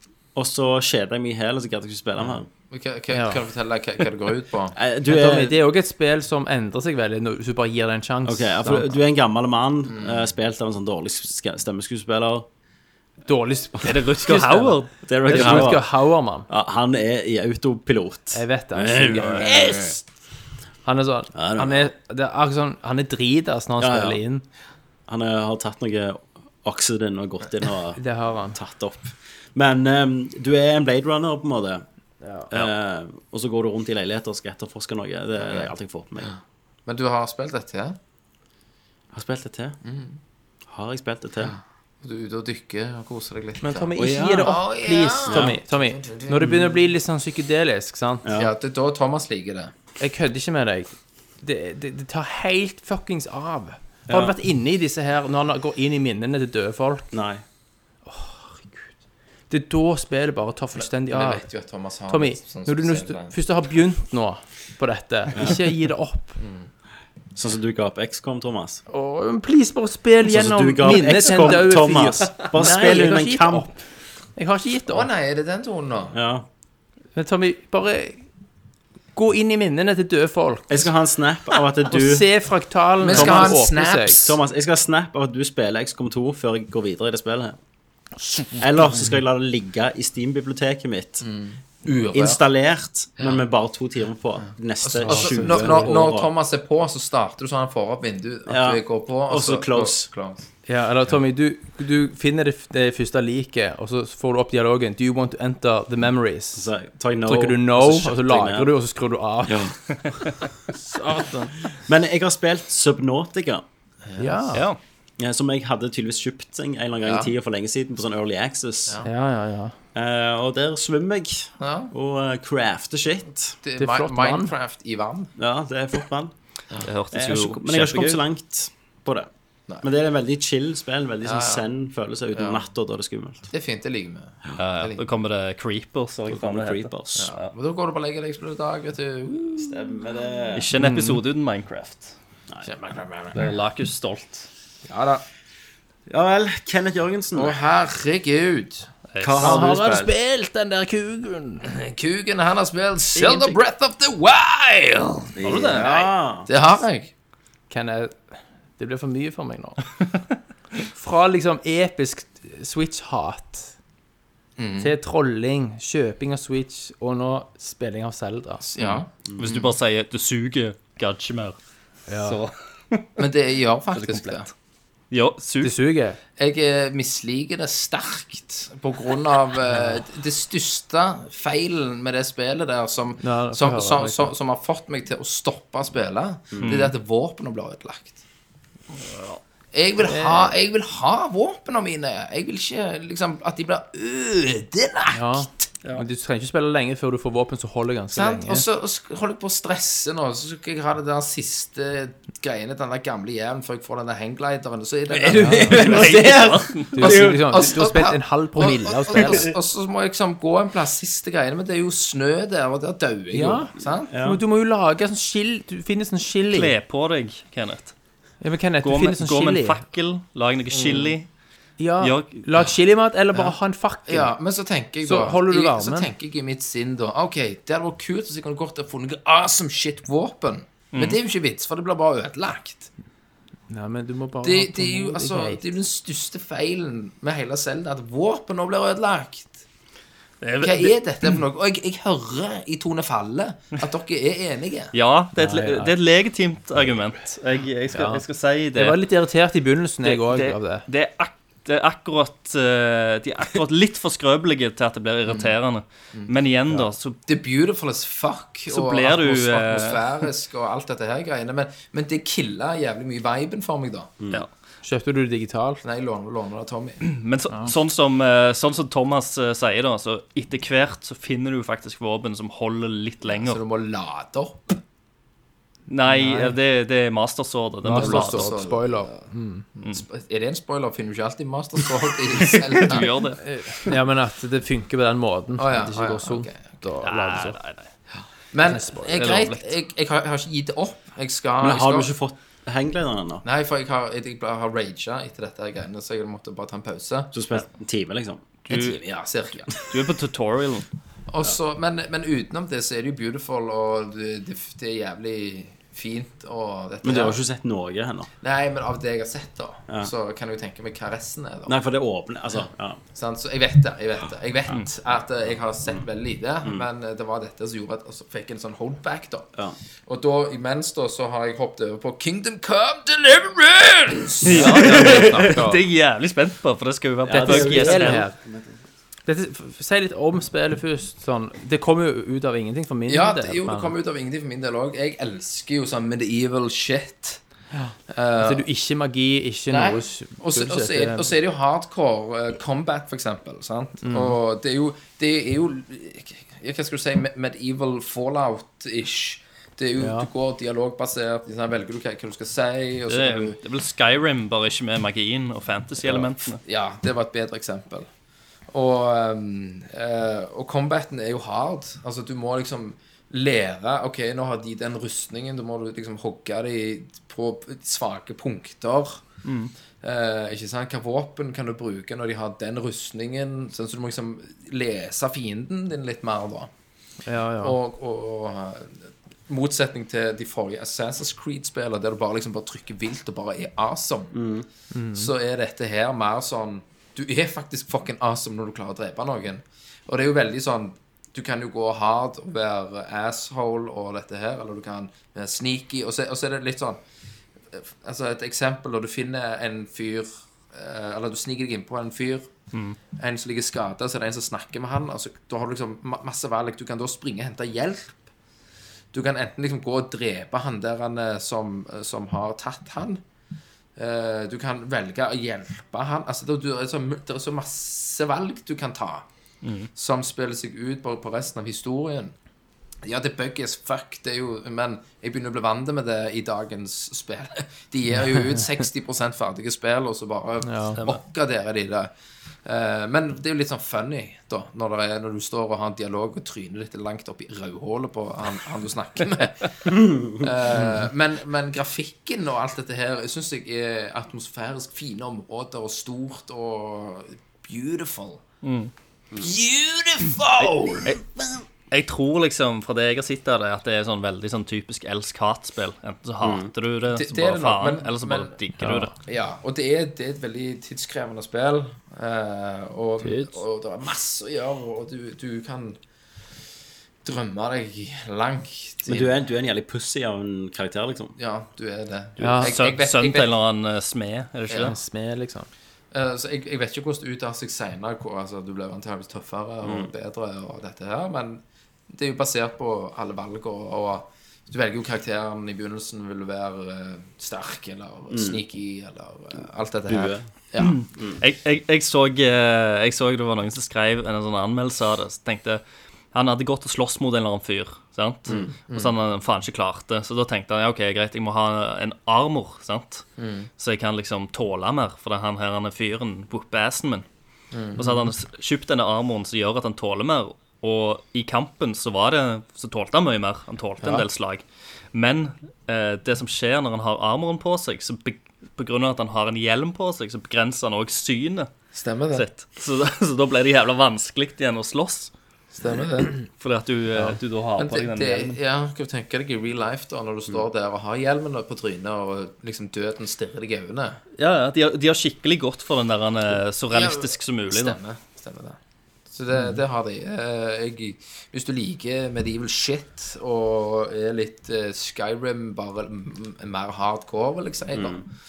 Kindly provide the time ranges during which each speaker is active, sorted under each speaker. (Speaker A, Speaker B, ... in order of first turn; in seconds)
Speaker A: 0.3-2.5, 4.7-5.6, 8.2-12.5, 15.1-15.9, 16.5-19.9, 21.3-21.9, 23.8-24.2, 25.1-28.0, 28.5-31.8, 32.5-36.3, 39.1-39.8, 40.7-41.5, 44.0-44.6, 45.3-45.6, 48.2-48.5, 54.1-54.3, 57.1-57.4, 67.3-68.8, 70.2-73.7, 76.1-76.5, 80.7-82.3, 83.1-83.6, 84.2-87.6, 88.5-91.2, 92.1-96.3, 98.5-100.1, 106.5-108.7, 109.5-109.8, 111.7-113.6, 115.2-119.0, 119.9-123.6, 125.4-126.3, 127.1-129.3, 129.8-133.5, 136.3-137.3, 139.6-140.7, 146.1-147.6, 149.2-150.1, 155.4-156.5, 169.3-169.6, 186.5-186.9, 205.3-207.7, 214.1-214.4, 291.6-293.4, 297.3-298.4, 307.0-308.3, 311.6-313.0, 324.8-325.1, 327.2-328.8, 384.3-384.6, 439.9-440.7, 456.4-456.7, 469.1-471.4, 479.8-480.1, 488.3-488.6, 490.1-490.4, 498.5-498.7, 547.9-548.2
Speaker B: 2.2-4.8, 9.9-10.2, 19.4-20.0, 35.4-35.7, 36.9-38.0, 39.8-40.2, 41.5-46.5, 48.3-49.7, 61.1-63.3, 66.4-66.7, 74.9-76.1, 83.0-84.4, 91.2-92.4, 94.8-100.5, 114.0-114.4, 117.0-117.3, 121.6-121.9, 123.6-125.3, 131.2-131.7, 132.3-132.6, 133.5-135.0, 137.2-140.0, 142.6-143.4, 144.8-145.2, 147.3-148.9, 151.6-157.1, 164.6-164.9, 168.6-169.6, 173.2-174.5, 176.4-188.2, 189.7-195.7, 198.1-206.3, 207.0-214.1, 220.7-221.1, 224.1-232.9, 234.4-239.6, 240.6-244.9, 255.3-255.5, 257.2-264.1, 265.8-267.0, 273.3-274.8, 277.9-283.2, 285.6-286.6, 288.5-292.1, 293.4-297.3, 298.7-299.9, 301.3-307.4, 308.4-311.8, 313.1-319.5, 320.1-325.3, 333.1-337.4, 338.1-338.7, 339.7-353.6, 356.1-358.1, 358.7-369.2, 370.0-376.7, 377.6-384.3, 385.1-397.0, 397.7-402.5, 403.1-408.2, 409.1-413.2, 413.9-419.2, 419.9-422.3, 423.0-432.1, 432.6-448.4, 449.4-451.1, 457.1-458.5, 459.2-466.0, 467.2-469.3, 471.4-473.5, 474.7-474.9, 476.1-491.0, 498.5-499.1, 503.4-503.7, 507.7-508.3, 521.9-522.4, 525.7-526.5, 527.8-534.2, 536.9-538.8, 539.3-548.3
Speaker C: 3.1-3.4, 5.1-8.9, 13.2-16.5, 18.3-19.9, 20.8-24.4, 27.9-28.6, 32.2-32.5, 43.6-48.2, 50.0-57.1, 58.0-58.9, 59.5-61.4, 62.1-66.4, 68.9-73.8, 74.3-75.1, 77.1-78.2, 79.1-80.9, 81.8-84.3, 95.0-95.9, 100.7-106.7, 107.2-109.7, 110.8-111.6, 114.2-114.7, 119.0-119.7, 123.8-124.5, 140.8-141.2, 149.4-151.7, 153.2-153.5, 157.7-159.8, 160.9-163.7, 164.8-168.7, 172.1-172.4, 175.6-176.2, 179.7-180.0, 183.2-184.3, 190.0-190.5, 195.1-198.6, 205.3-206.3, 206.9-209.4, 213.3-216.7, 218.4-219.8, 221.8-224.3, 225.0-226.1, 233.7-235.7, 245.3-245.9, 247.9-248.2, 248.7-250.8, 264.8-265.8, 276.0-276.6, 277.8-279.6, 283.4-287.6, 288.6-289.2, 324.5-325.8, 327.4-328.3, 329.2-333.9, 338.4-341.3, 344.0-344.4, 350.0-350.3, 377.2-377.8, 384.9-385.3, 430.6-431.0, 440.7-441.0, 458.8-459.1, 463.2-463.6, 472.4-472.7, 474.8-475.7
Speaker D: 13.8-15.7, 109.9-110.3, 114.5-114.8, 126.8-128.2, 134.6-137.5, 140.6-142.1, 143.3-144.5, 149.1-149.5, 155.4-155.9, 168.8-171.6, 172.2-173.1, 173.9-174.5, 175.1-175.7, 186.6-186.9, 188.9-189.4, 205.2-207.2, 216.5-217.9, 218.8-221.3, 222.0-222.4, 230.9-231.2, 240.4-240.9, 244.9-249.0, 250.0-257.2, 258.7-260.1, 267.0-273.6, 275.9-278.6, 282.8-283.4, 287.0-287.9, 289.1-289.7, 298.7-299.0, 299.7-300.9, 324.4-328.2, 353.1-356.6, 369.4-369.7, 402.7-403.0, 419.6-419.9, 448.6-448.9, 450.6-459.1, 472.4-474.9, 490.8-495.8, 496.3-503.2, 503.8-507.2, 507.9-521.7, 522.3-525.3, 526.4-528.6, 534.4-538.0